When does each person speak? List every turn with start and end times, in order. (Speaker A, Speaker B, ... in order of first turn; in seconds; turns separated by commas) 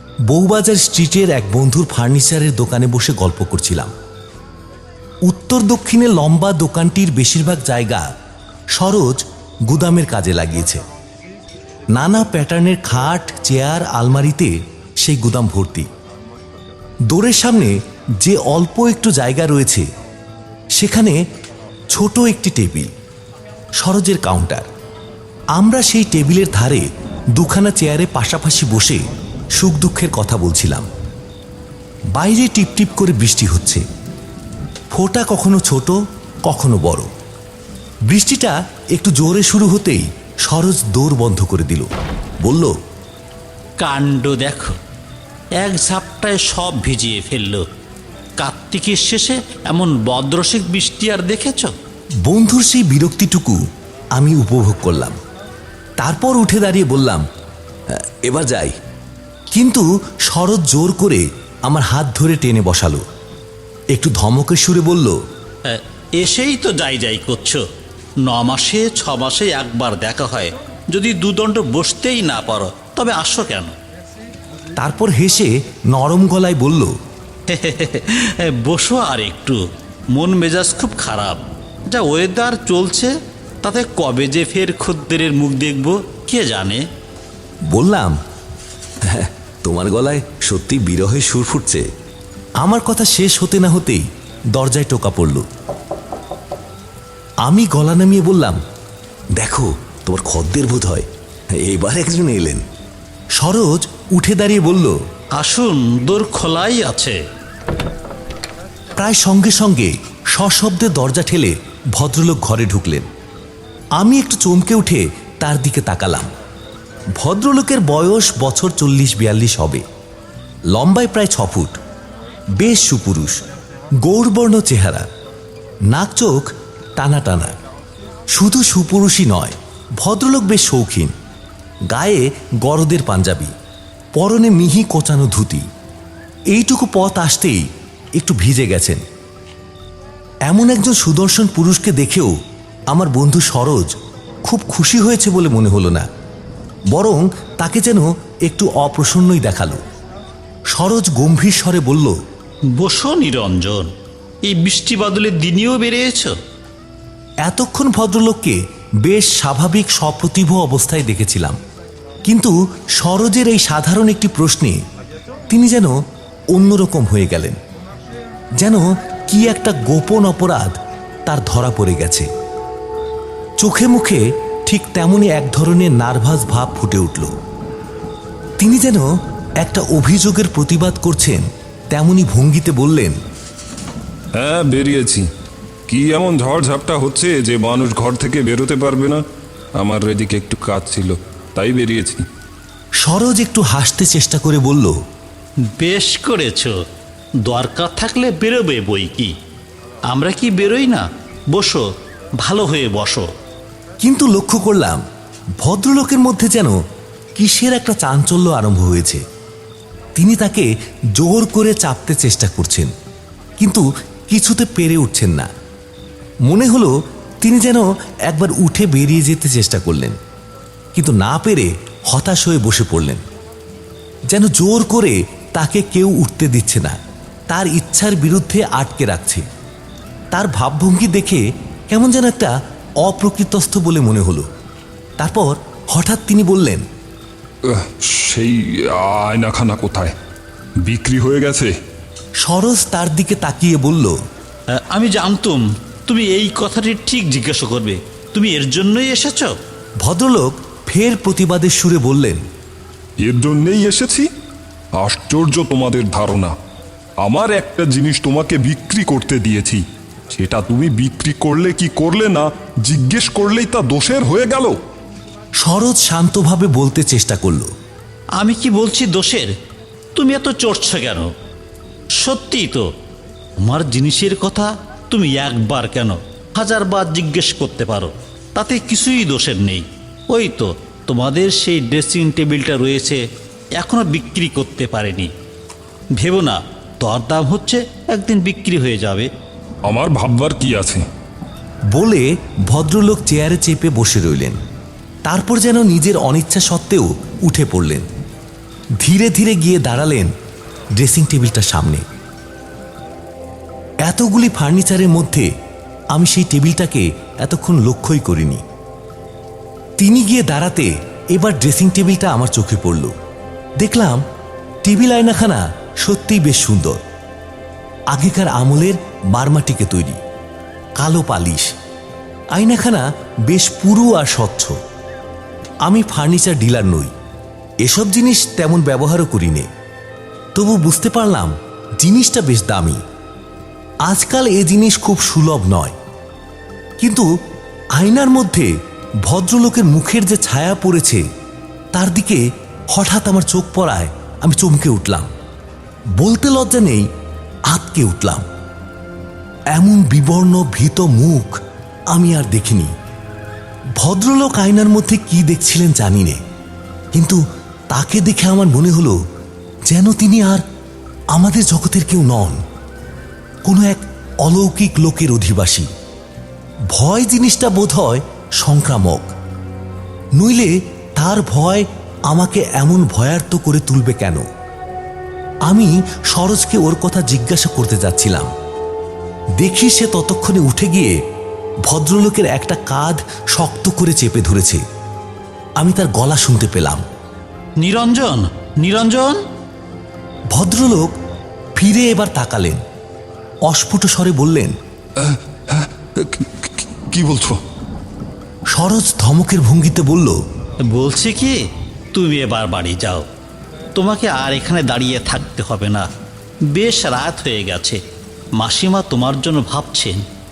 Speaker A: 0.3-3.9, Speaker A: 5.2-8.1, Speaker A: 8.8-10.8, Speaker A: 11.9-15.9, Speaker A: 17.1-19.9, Speaker A: 20.8-21.2, Speaker A: 21.9-22.9, Speaker A: 23.8-24.7, Speaker A: 25.5-29.0, Speaker A: 29.6-30.9, Speaker A: 32.1-33.8, Speaker A: 34.9-37.1, Speaker A: 38.1-41.9, Speaker A: 42.4-42.8, Speaker B: 43.8-44.8, Speaker B: 45.6-47.6, Speaker B: 48.4-51.7, Speaker A: 52.2-53.6, Speaker A: 54.1-55.2, Speaker A: 56.0-57.2, Speaker A: 57.9-58.7, Speaker A: 59.5-63.0, Speaker A: 63.9-65.2, Speaker B: 65.7-67.6, Speaker B: 68.2-73.7, Speaker A: 74.8-76.9, Speaker B: 77.5-79.6, Speaker B: 80.1-83.1, Speaker B: 83.6-86.8, Speaker A: 87.7-88.2, Speaker A: 89.0-91.8, Speaker A: 92.6-95.5, Speaker A: 97.4-98.6, Speaker A: 99.4-102.6, Speaker A: 103.4-105.0, Speaker B: 105.4-107.2, Speaker A: 109.0-113.1, Speaker A: 114.0-116.3, Speaker A: 117.2-119.8, Speaker A: 120.7-121.8, Speaker A: 122.6-123.3, Speaker A: 124.0-125.0, Speaker A: 125.9-127.5, Speaker A: 128.3-131.1, Speaker A: 131.9-133.5, Speaker A: 134.2-135.6, Speaker A: 136.5-137.7, Speaker A: 138.2-139.0, Speaker A: 140.5-142.3, Speaker A: 142.9-143.9, Speaker A: 144.4-146.1, Speaker A: 146.9-149.8, Speaker A: 150.7-152.2, Speaker B: 152.8-153.9, Speaker B: 154.5-156.3, Speaker A: 157.4-161.6, Speaker A: 162.2-164.8, Speaker A: 165.5-165.9, Speaker A: 166.5-167.6, Speaker A: 168.6-172.3, Speaker A: 173.6-177.3, Speaker A: 178.6-183.2, Speaker C: 184.3-185.2, Speaker C: 185.9-189.2, Speaker C: 189.8-192.2, Speaker A: 193.0-194.9, Speaker B: 195.7-196.8, Speaker B: 197.4-199.3, Speaker B: 200.1-201.8, Speaker B: 202.4-203.3, Speaker A: 204.0-205.0, Speaker A: 205.6-206.8, Speaker A: 207.4-209.2, Speaker A: 210.2-212.9, Speaker A: 213.6-215.5, Speaker A: 216.4-220.2, Speaker A: 220.9-223.2, Speaker A: 224.3-227.0, Speaker A: 227.5-229.4, Speaker A: 230.3-234.5, Speaker A: 235.2-236.8, Speaker C: 237.6-240.1, Speaker C: 240.8-241.7, Speaker A: 242.4-244.2, Speaker B: 244.7-249.6, Speaker A: 250.0-252.4, Speaker C: 253.2-254.3, Speaker C: 255.0-256.5, Speaker C: 257.2-264.8, Speaker A: 265.6-267.7, Speaker B: 268.4-269.5, Speaker B: 270.1-271.3, Speaker B: 272.2-272.9, Speaker B: 273.6-283.2, Speaker B: 283.8-285.3, Speaker B: 286.2-289.3, Speaker C: 289.9-291.0, Speaker A: 291.9-294.6, Speaker A: 295.3-298.1, Speaker A: 299.0-300.3, Speaker A: 301.0-302.0, Speaker A: 304.0-305.5, Speaker A: 306.1-308.6, Speaker A: 310.0-313.1, Speaker A: 313.8-314.2, Speaker A: 314.8-317.0, Speaker A: 318.1-320.2, Speaker A: 321.0-321.7, Speaker A: 322.5-324.8, Speaker A: 325.9-327.1, Speaker A: 327.8-329.7, Speaker A: 330.5-333.0, Speaker A: 334.1-335.9, Speaker A: 337.0-337.3, Speaker A: 337.9-338.7, Speaker A: 339.2-341.2, Speaker A: 341.9-345.3, Speaker A: 346.2-347.1, Speaker A: 347.7-348.4, Speaker A: 349.7-351.6, Speaker A: 352.1-352.9, Speaker A: 354.0-356.4, Speaker A: 357.1-359.2, Speaker A: 359.9-360.6, Speaker A: 361.3-362.6, Speaker A: 363.6-365.9, Speaker A: 366.9-369.3, Speaker A: 370.4-374.4, Speaker A: 375.7-378.5, Speaker A: 379.6-381.1, Speaker A: 381.8-384.8, Speaker A: 385.8-387.0, Speaker B: 387.8-389.4, Speaker A: 390.5-391.1, Speaker A: 391.8-392.8, Speaker A: 393.7-394.7, Speaker C: 395.2-397.6, Speaker A: 398.7-400.4, Speaker B: 400.9-401.6, Speaker B: 402.1-403.3, Speaker B: 403.9-406.1, Speaker B: 406.7-408.0, Speaker B: 408.6-410.2